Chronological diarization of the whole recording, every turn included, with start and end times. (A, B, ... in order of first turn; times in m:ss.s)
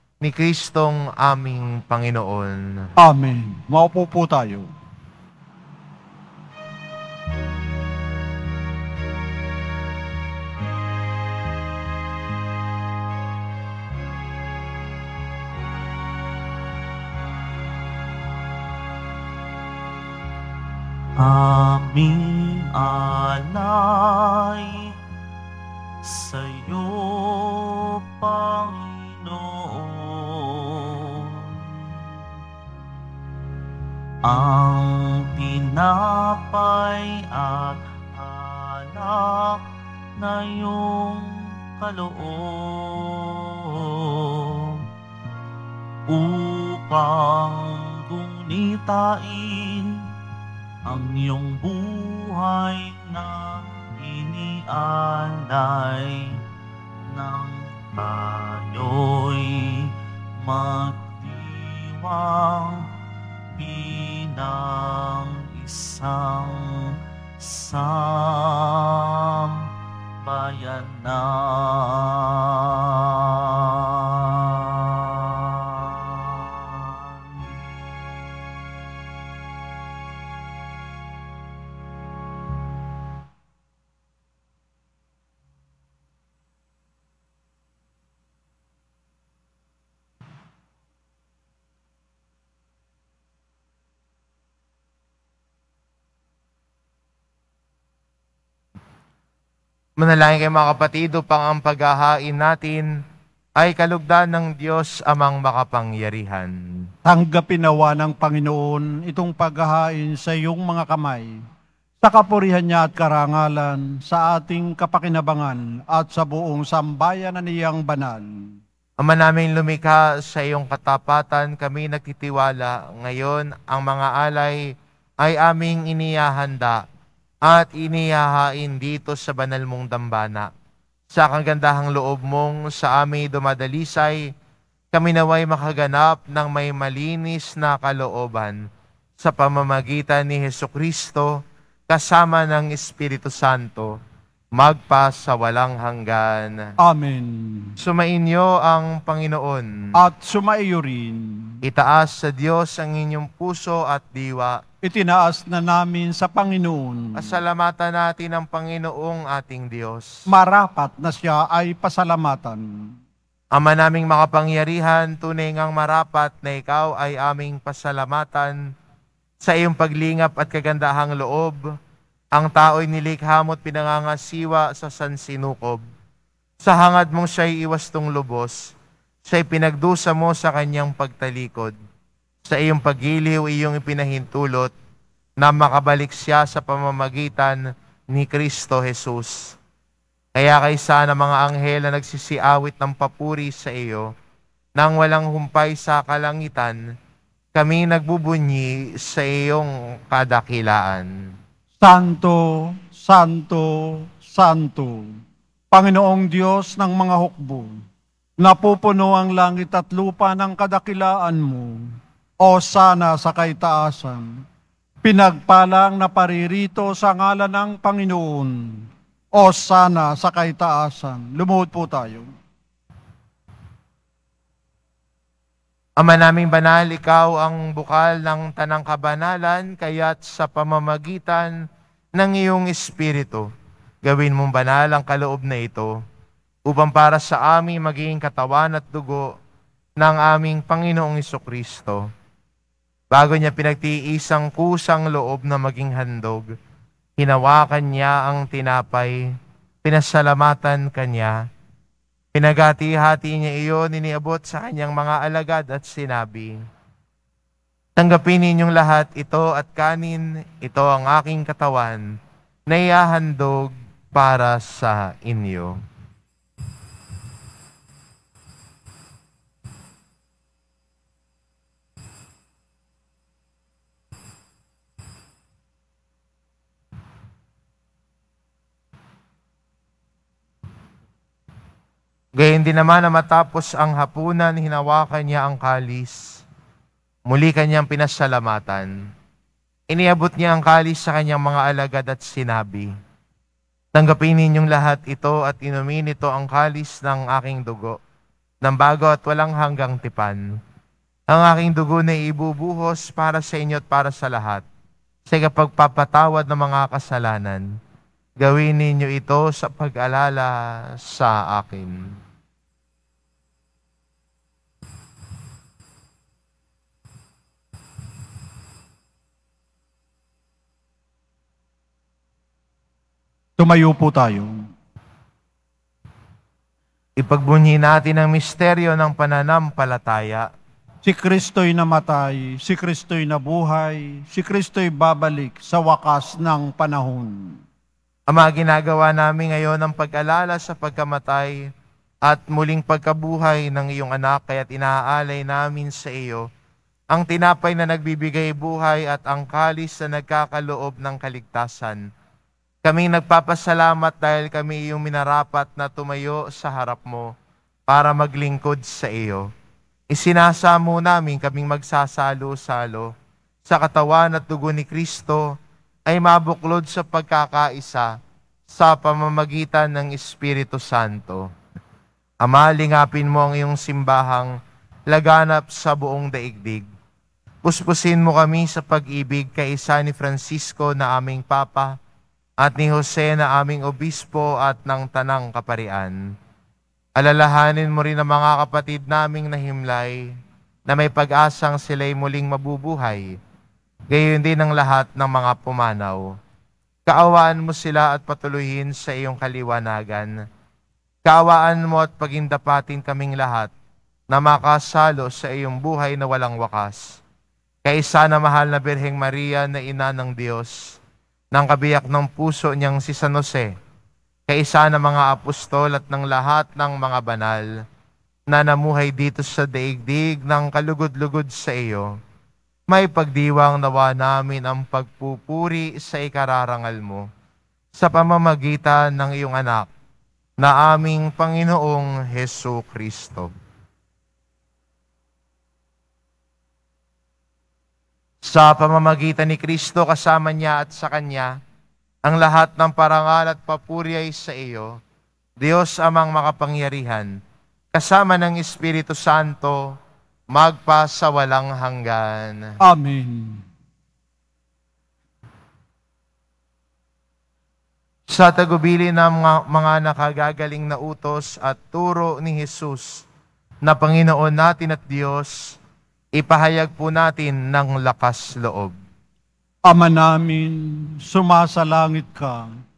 0:00.2-0:02.8 A
0:03.0-0:04.7 B
0:21.2-0:24.9 C
0:26.0-0:32.0 C
0:34.2-0:39.6 C
0:40.2-0:44.8 C
0:46.1-0:50.1 C
0:50.8-0:56.4 C
0:57.0-1:02.9 C
1:03.6-1:09.7 C
1:10.2-1:17.5 C
1:40.0-1:42.9 A
1:43.6-1:46.5 A
1:47.0-1:51.3 B
1:52.0-1:58.5 B
1:59.0-2:04.6 A
2:05.2-2:06.8 A
2:07.4-2:10.5 A
2:11.1-2:14.2 A
2:14.9-2:18.6 A
2:19.2-2:21.3 A
2:21.9-2:23.9 A
2:24.5-2:26.6 A
2:26.8-2:27.8 B
2:27.8-2:29.7 A
2:29.9-2:31.6 B
2:31.6-2:34.6 A
2:34.8-2:37.4 B
2:37.2-2:40.2 A
2:40.3-2:42.9 B
2:43.5-2:48.6 A
2:49.4-2:51.6 A
2:52.3-2:55.8 A
2:56.6-2:58.7 A
2:59.2-3:01.7 A
3:02.4-3:04.7 A
3:05.4-3:07.6 A
3:08.1-3:09.6 A
3:10.4-3:14.1 A
3:14.8-3:16.8 A
3:17.5-3:21.1 A
3:21.8-3:25.1 B
3:25.7-3:27.8 B
3:28.4-3:31.9 B
3:32.4-3:34.4 B
3:35.0-3:42.3 B
3:46.0-3:51.5 A
3:52.2-3:53.5 A
3:54.0-3:55.9 A
3:56.7-3:59.3 A
4:00.0-4:02.0 A
4:03.1-4:06.5 A
4:07.2-4:09.2 A
4:09.8-4:11.4 A
4:12.3-4:16.6 A
4:18.0-4:22.0 A
4:22.7-4:25.8 A
4:42.4-4:46.4 A
4:47.3-4:48.9 A
4:49.9-4:52.9 A
4:53.9-4:58.0 A
4:58.6-5:00.4 A
5:01.3-5:04.6 A
5:05.3-5:07.6 A
5:08.4-5:12.1 A
5:23.6-5:24.7 B
5:27.2-5:30.5 A
5:31.0-5:37.6 B
5:38.3-5:41.6 A
5:42.2-5:46.4 A
5:47.1-5:52.0 A
5:52.8-5:57.3 A
5:57.9-5:59.4 A
6:00.1-6:03.1 A
6:03.6-6:05.4 A
6:06.1-6:08.1 A
6:08.7-6:11.4 A
6:12.4-6:14.5 A
6:15.1-6:16.8 A
6:17.6-6:21.9 A
6:22.6-6:26.2 A
6:27.2-6:30.2 A
6:30.9-6:33.2 A
6:34.1-6:36.2 A
6:37.1-6:40.3 A
6:41.2-6:43.7 A
6:44.3-6:47.2 A
6:47.8-6:50.9 A
6:51.5-6:53.7 A
6:54.5-6:57.7 A
6:58.5-7:02.1 A
7:02.9-7:07.2 A
7:07.9-7:09.9 A
7:10.6-7:13.5 A
7:18.4-7:21.5 A
7:22.2-7:25.0 A
7:25.6-7:27.3 A
7:27.9-7:29.9 A
7:30.5-7:32.7 A
7:32.8-7:33.6 B
7:38.3-7:43.2 A
7:43.8-7:45.7 A
7:46.3-7:49.0 A
7:49.9-7:52.7 B